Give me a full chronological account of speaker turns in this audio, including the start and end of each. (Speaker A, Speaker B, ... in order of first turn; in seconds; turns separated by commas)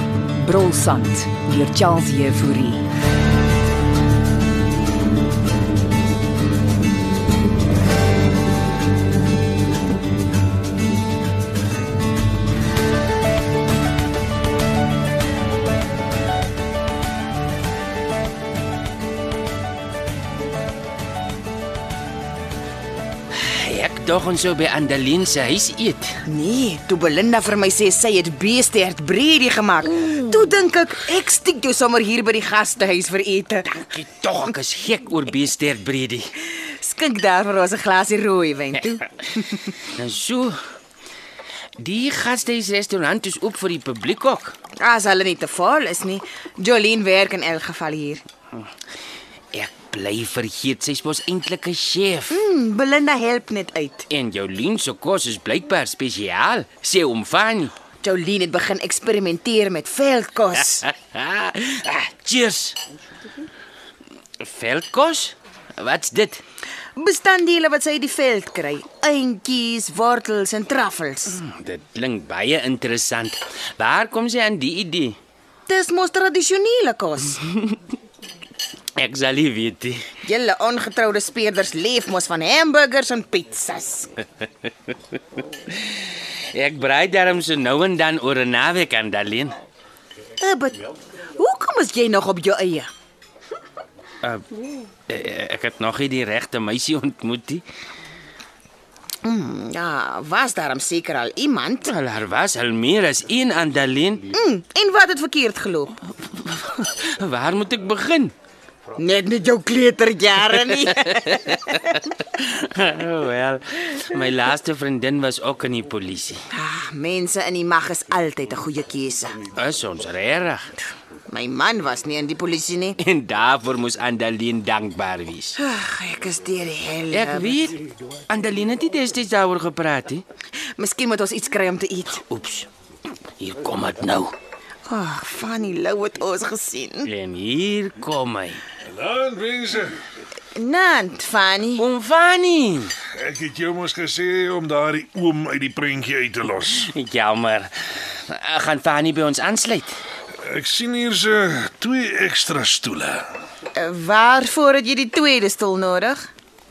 Speaker A: 0.3-2.9, Speaker B: 23.4-26.2, Speaker C: 26.3-33.8, Speaker B: 33.7-36.3, Speaker C: 36.6-39.8, Speaker B: 40.0-40.6, Speaker B: 41.8-44.5, Speaker C: 44.8-48.2, Speaker B: 49.5-52.4, Speaker C: 52.3-54.1, Speaker B: 54.1-57.7, Speaker C: 58.0-60.9, Speaker B: 60.8-62.8, Speaker B: 64.4-66.4, Speaker C: 67.0-71.4, Speaker B: 71.3-75.2, Speaker C: 75.7-77.4, Speaker B: 79.0-80.0, Speaker C: 80.2-84.1, Speaker B: 86.5-89.6, Speaker C: 90.4-90.9, Speaker C: 91.4-92.9, Speaker B: 95.1-97.6, Speaker C: 99.2-102.0, Speaker B: 101.9-104.3, Speaker C: 104.3-106.0, Speaker B: 106.2-108.3, Speaker C: 109.0-112.0, Speaker B: 112.2-116.4, Speaker C: 116.5-119.4, Speaker B: 119.6-120.7, Speaker C: 121.3-123.0, Speaker B: 123.0-125.6, Speaker C: 125.6-127.7, Speaker B: 127.1-130.2, Speaker C: 130.8-132.2, Speaker B: 132.3-132.7, Speaker B: 133.4-134.3, Speaker C: 134.9-137.1, Speaker B: 137.0-138.6, Speaker D: 138.9-140.0, Speaker C: 140.6-141.8, Speaker B: 141.8-143.0, Speaker D: 143.0-146.9, Speaker B: 146.9-150.0, Speaker D: 150.4-153.3, Speaker C: 153.8-156.2